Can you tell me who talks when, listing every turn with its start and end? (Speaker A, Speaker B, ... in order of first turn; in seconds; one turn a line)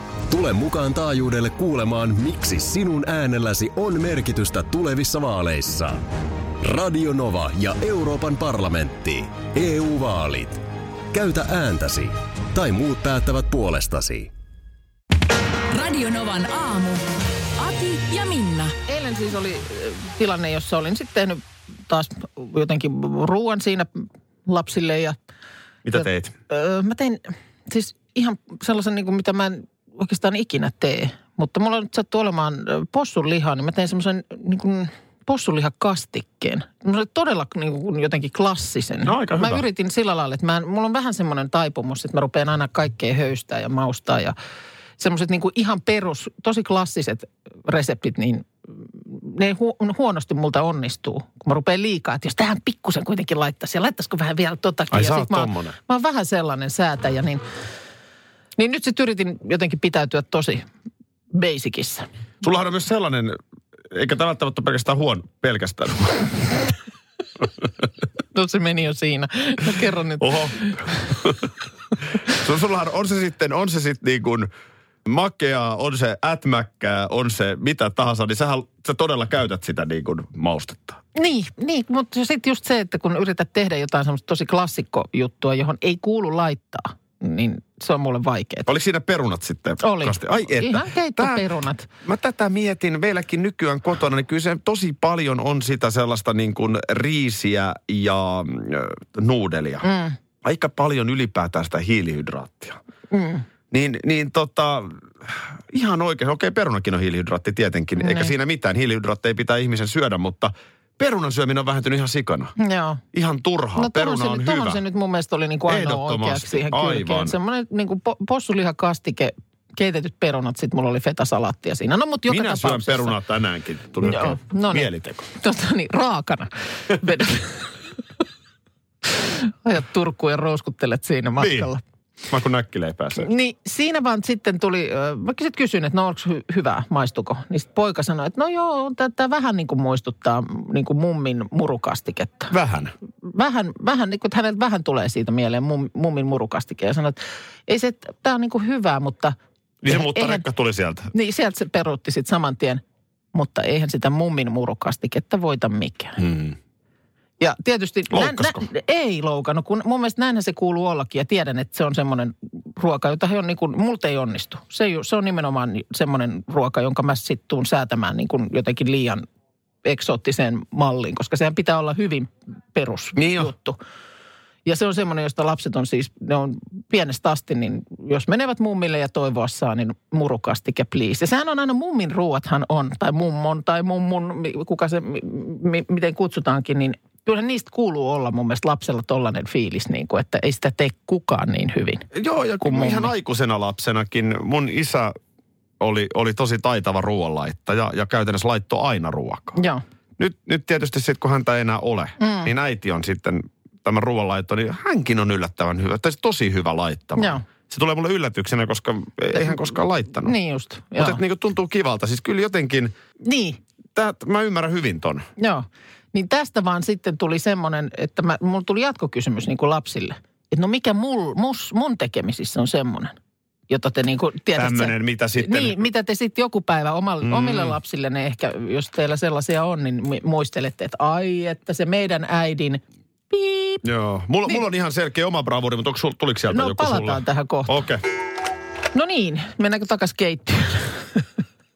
Speaker A: 0.3-6.0
Speaker A: 6.6-10.6
Speaker A: 11.1-14.3
Speaker B: 15.7-17.1
Speaker B: 17.6-18.8
Speaker C: 18.9-25.2
Speaker D: 25.9-26.3
Speaker C: 26.5-44.4
Speaker D: 39.0-39.6
Speaker C: 45.0-48.5
Speaker C: 49.0-57.4
Speaker D: 54.9-55.8
Speaker C: 58.6-60.6
Speaker C: 61.3-62.1
Speaker D: 62.4-63.4
Speaker D: 63.9-66.6
Speaker C: 68.3-71.0
Speaker D: 70.2-71.5
Speaker D: 72.3-74.5
Speaker D: 75.0-81.0
Speaker C: 81.2-88.7
Speaker D: 88.7-91.4
Speaker C: 89.8-91.9
Speaker D: 92.0-99.9
Speaker C: 99.8-100.2
Speaker D: 100.4-102.8
Speaker C: 103.1-103.5
Speaker D: 103.7-112.5
Speaker C: 108.0-108.3
Speaker C: 112.6-113.0
Speaker D: 113.1-114.8
Speaker C: 113.8-123.2
Speaker D: 115.7-117.4
Speaker D: 122.3-125.3
Speaker C: 124.0-127.7
Speaker C: 129.1-131.8
Speaker D: 131.4-131.7
Speaker D: 132.3-133.3
Speaker C: 133.2-142.5
Speaker D: 142.5-142.9
Speaker C: 143.2-149.3
Speaker D: 149.8-151.1
Speaker C: 149.9-150.4
Speaker C: 151.1-152.8
Speaker C: 153.3-156.2
Speaker D: 156.2-156.6
Speaker C: 157.4-169.3
Speaker D: 158.1-158.7
Speaker C: 169.8-173.8
Speaker D: 173.2-173.5
Speaker C: 174.7-192.1
Speaker D: 192.1-195.2
Speaker C: 192.6-193.1
Speaker D: 195.8-199.6
Speaker C: 199.6-199.8
Speaker D: 200.2-210.3
Speaker C: 202.2-202.5
Speaker C: 207.2-207.4
Speaker C: 210.2-211.2
Speaker D: 211.0-212.9
Speaker C: 213.2-213.6
Speaker D: 213.9-215.2
Speaker C: 215.4-223.2
Speaker C: 223.7-233.8
Speaker D: 224.5-225.8
Speaker D: 227.2-227.8
Speaker D: 233.8-238.0
Speaker C: 236.5-237.8
Speaker C: 238.9-241.3